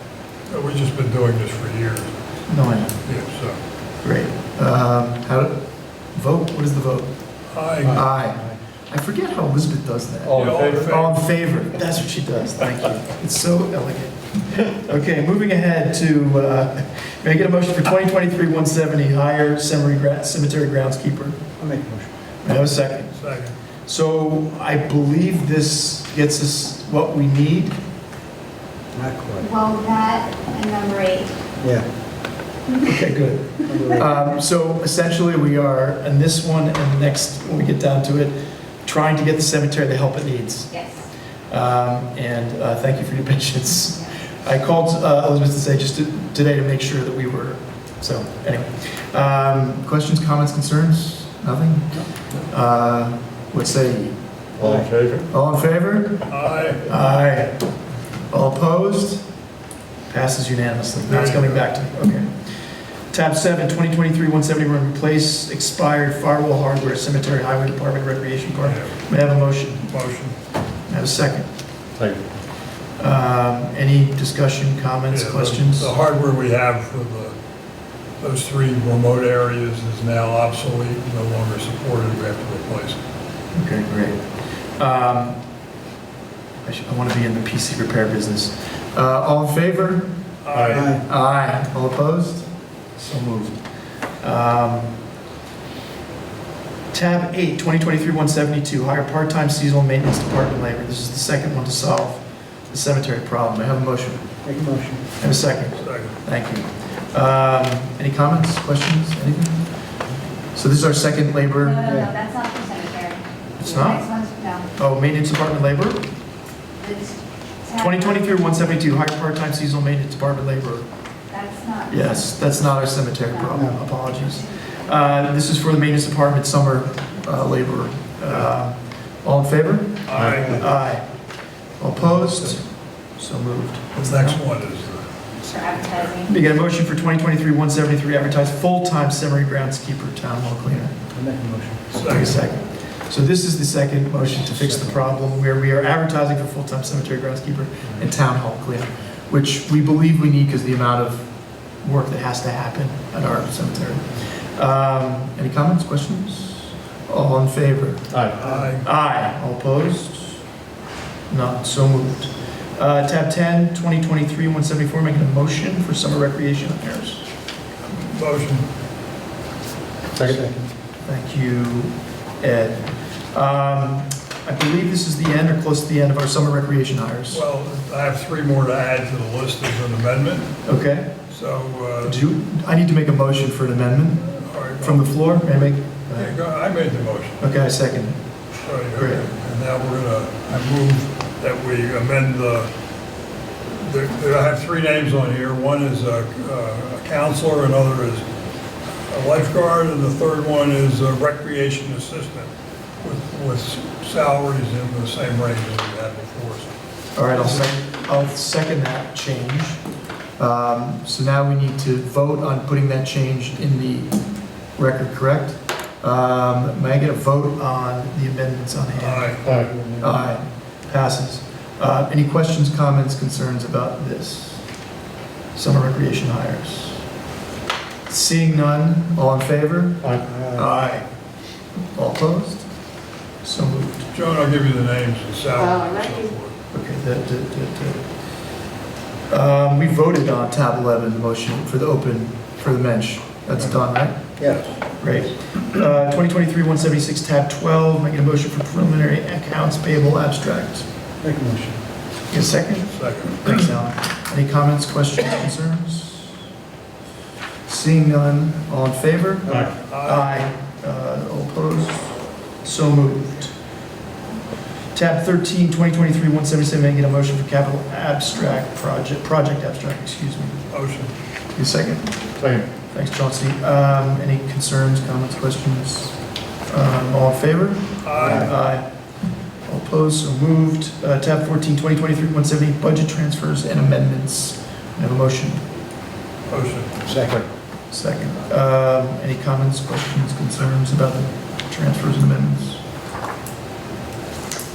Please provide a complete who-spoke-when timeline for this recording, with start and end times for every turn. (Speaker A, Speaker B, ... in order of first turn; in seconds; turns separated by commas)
Speaker A: 0.5-2.1, Speaker B: 2.5-3.0, Speaker A: 3.0-3.6, Speaker B: 4.0-5.6, Speaker B: 6.1-7.1, Speaker A: 7.5-8.0, Speaker B: 7.8-21.4, Speaker C: 8.3-8.6, Speaker D: 10.2-11.0, Speaker A: 10.3-11.2, Speaker C: 21.6-22.1, Speaker B: 22.4-23.2, Speaker A: 23.1-23.6, Speaker B: 23.9-27.8, Speaker C: 28.9-29.5, Speaker E: 29.4-31.3, Speaker C: 31.6-31.9, Speaker B: 32.8-40.8, Speaker C: 33.7-34.1, Speaker E: 40.7-41.1, Speaker B: 41.5-54.1, Speaker D: 54.6-55.3, Speaker C: 54.6-54.9, Speaker B: 55.3-56.3, Speaker A: 56.3-56.8, Speaker B: 56.9-57.6, Speaker B: 58.3-59.2, Speaker B: 60.1-62.5, Speaker A: 61.1-61.7, Speaker B: 63.1-69.9, Speaker A: 68.6-69.0, Speaker A: 69.9-70.4, Speaker B: 70.9-71.5, Speaker B: 73.0-75.9, Speaker A: 75.1-77.3, Speaker A: 78.2-83.0, Speaker B: 83.5-84.2, Speaker B: 84.8-85.4, Speaker B: 86.6-90.1, Speaker A: 90.4-91.0, Speaker D: 90.5-90.9, Speaker C: 90.7-91.0, Speaker B: 90.8-93.5, Speaker B: 94.2-95.0, Speaker B: 96.9-104.3, Speaker C: 104.4-105.1, Speaker B: 105.2-109.7, Speaker A: 105.8-106.2, Speaker B: 110.5-111.9, Speaker E: 111.6-114.7, Speaker C: 111.8-112.1, Speaker B: 113.6-114.1, Speaker B: 114.7-116.0, Speaker E: 116.8-118.3, Speaker B: 117.8-120.9, Speaker E: 121.3-122.5, Speaker B: 121.9-131.1, Speaker E: 123.2-124.9, Speaker C: 123.5-123.8, Speaker A: 130.1-130.6, Speaker D: 130.1-130.4, Speaker C: 130.3-130.7, Speaker B: 131.8-134.4, Speaker A: 133.9-135.2, Speaker E: 135.4-136.3, Speaker A: 135.7-136.1, Speaker B: 136.3-140.9, Speaker C: 141.1-141.9, Speaker A: 141.9-142.4, Speaker B: 142.1-158.2, Speaker C: 144.5-145.0, Speaker D: 158.1-158.4, Speaker C: 158.4-158.8, Speaker A: 158.4-158.9, Speaker B: 158.8-160.4, Speaker B: 161.3-167.3, Speaker A: 168.0-168.7, Speaker C: 170.2-170.7, Speaker B: 171.1-177.4, Speaker A: 177.3-180.6, Speaker B: 180.7-181.2, Speaker A: 181.3-182.2, Speaker B: 182.0-186.4, Speaker A: 184.4-185.1, Speaker A: 186.2-187.4, Speaker B: 187.4-188.2, Speaker A: 188.6-192.7, Speaker B: 188.9-189.3, Speaker A: 193.7-198.2, Speaker A: 199.1-202.5, Speaker A: 203.0-206.7, Speaker B: 207.2-209.8, Speaker B: 210.4-214.2, Speaker B: 214.8-219.4, Speaker A: 219.0-219.5, Speaker D: 219.4-219.7, Speaker C: 219.5-220.1, Speaker B: 220.0-224.6, Speaker B: 225.5-227.0, Speaker B: 228.1-231.1, Speaker C: 230.3-230.7, Speaker B: 231.9-232.7, Speaker B: 233.4-234.1, Speaker A: 234.1-236.5, Speaker E: 235.6-236.3, Speaker B: 236.7-238.1, Speaker B: 239.3-244.3, Speaker C: 244.4-244.7, Speaker A: 244.4-244.8, Speaker B: 245.0-250.9, Speaker C: 251.2-251.8, Speaker B: 252.3-256.4, Speaker A: 252.9-253.6, Speaker B: 257.7-263.5, Speaker C: 259.5-259.7, Speaker A: 259.9-260.4, Speaker B: 264.9-270.7, Speaker A: 270.7-271.1, Speaker B: 271.6-272.1, Speaker D: 272.4-272.7, Speaker B: 272.9-276.2, Speaker B: 276.7-278.9, Speaker A: 278.0-278.5, Speaker C: 278.2-278.5, Speaker B: 279.7-285.6, Speaker A: 286.5-286.9, Speaker C: 287.1-287.5, Speaker B: 287.9-292.8